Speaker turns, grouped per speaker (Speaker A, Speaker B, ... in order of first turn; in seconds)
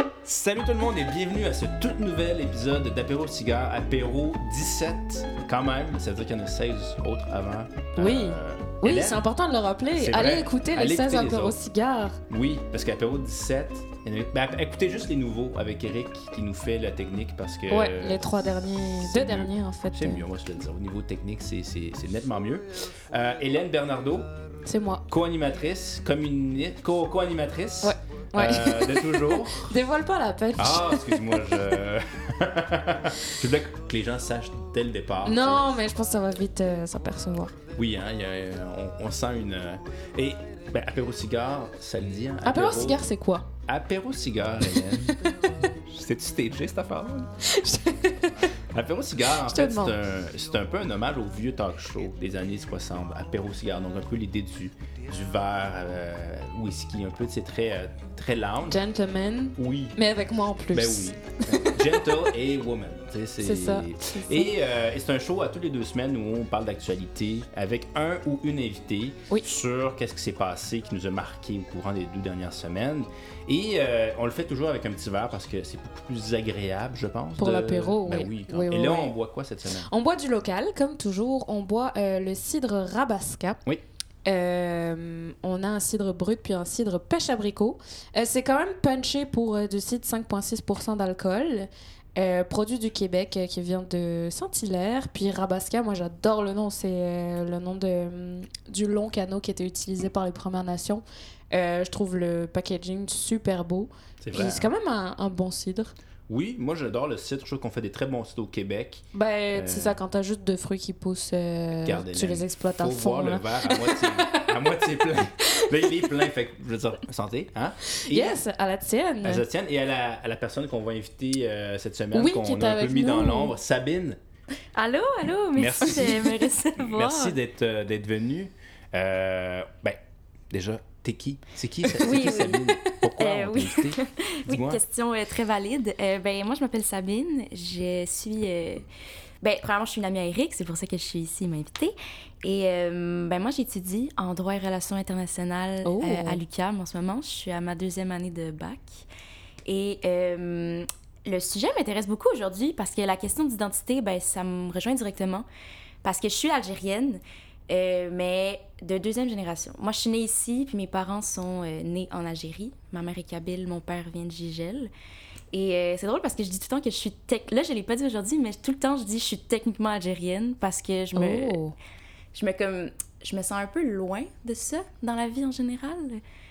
Speaker A: 0.2-9.2, 9.9-11.6, 12.3-24.3, 25.1-29.8, 30.6-35.8, 37.7-43.0, 43.6-47.3, 48.7-58.8, 59.6-60.0, 60.7-79.9, 104.2-104.7, 106.3-110.0, 111.8-118.4, 119.2-124.2, 125.5-130.0, 130.5-134.8
Speaker B: 8.0-12.2, 17.7-20.2, 24.6-25.0, 27.8-31.8, 35.2-37.5, 42.4-43.5, 47.5-48.3, 49.4-50.0, 58.7-61.6, 63.4-64.5, 77.4-79.1, 79.8-83.6, 84.2-105.9, 109.1-114.8, 115.6-116.1, 118.1-119.4, 122.1-123.5, 145.8-146.4, 171.1-171.8
Speaker C: 124.7-127.3, 132.0-138.8, 139.4-149.0, 149.7-155.4, 156.0-164.9, 165.5-171.6, 172.3-176.2